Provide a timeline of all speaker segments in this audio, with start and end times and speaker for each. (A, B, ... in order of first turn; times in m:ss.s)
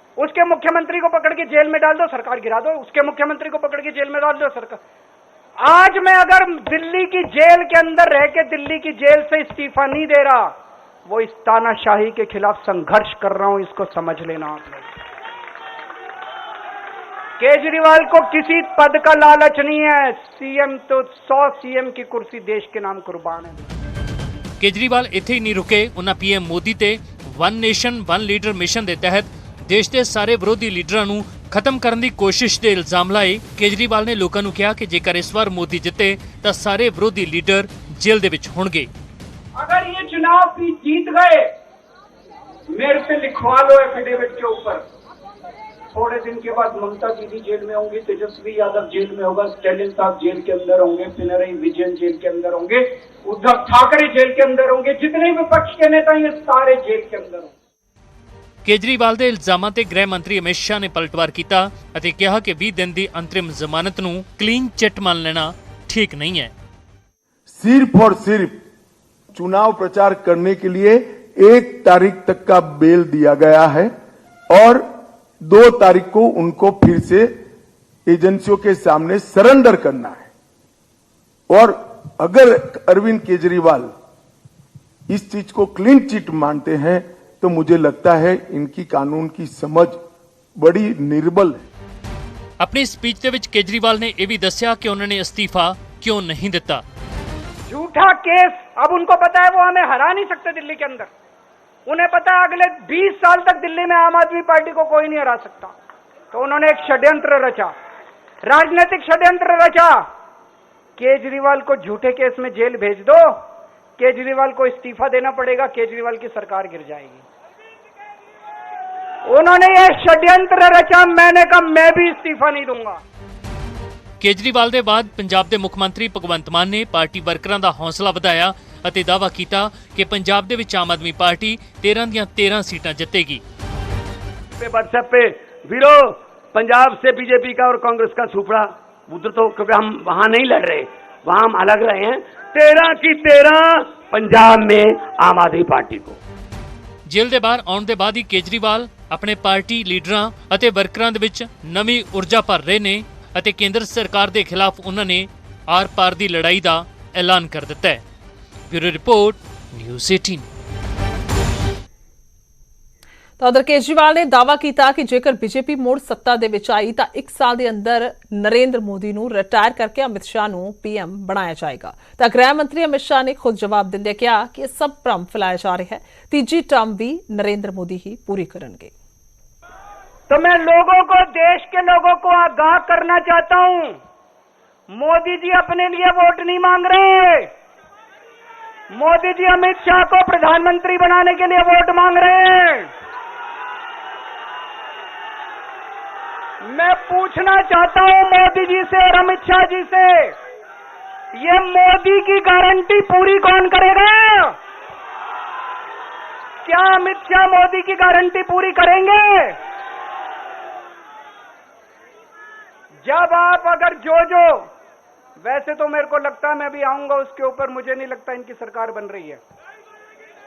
0:00.2-0:04.8 A
0:05.6-0:10.5 A
0:11.1-0:14.9 A
0:17.4-0:23.7 A
0:24.6-0:38.9 B
0:39.6-0:41.5 A
0:42.7-0:44.8 A
0:45.9-0:57.5 A
0:58.6-1:06.5 B
1:07.5-1:08.6 C
1:09.3-1:13.9 C
1:14.5-1:14.8 C
1:15.4-1:17.3 C
1:18.1-1:20.3 C
1:21.5-1:23.9 C
1:25.1-1:30.0 C
1:30.6-1:31.6 C
1:32.6-1:36.8 B
1:37.7-1:41.1 A
1:41.9-1:45.8 A
1:46.3-1:47.7 A
1:48.4-1:50.0 A
1:51.0-1:53.4 A
1:54.0-1:57.2 A
1:59.3-2:03.0 A
2:04.2-2:13.4 B
2:14.6-2:26.2 D
2:27.1-2:38.0 B
2:38.7-2:40.5 B
2:43.4-2:58.9 E
3:00.3-3:04.0 A
3:04.9-3:07.5 A
3:08.9-3:12.9 A
3:16.6-3:20.4 A
3:21.4-3:24.6 A
3:26.6-3:29.6 A
3:33.0-3:34.7 A
3:35.4-3:39.4 A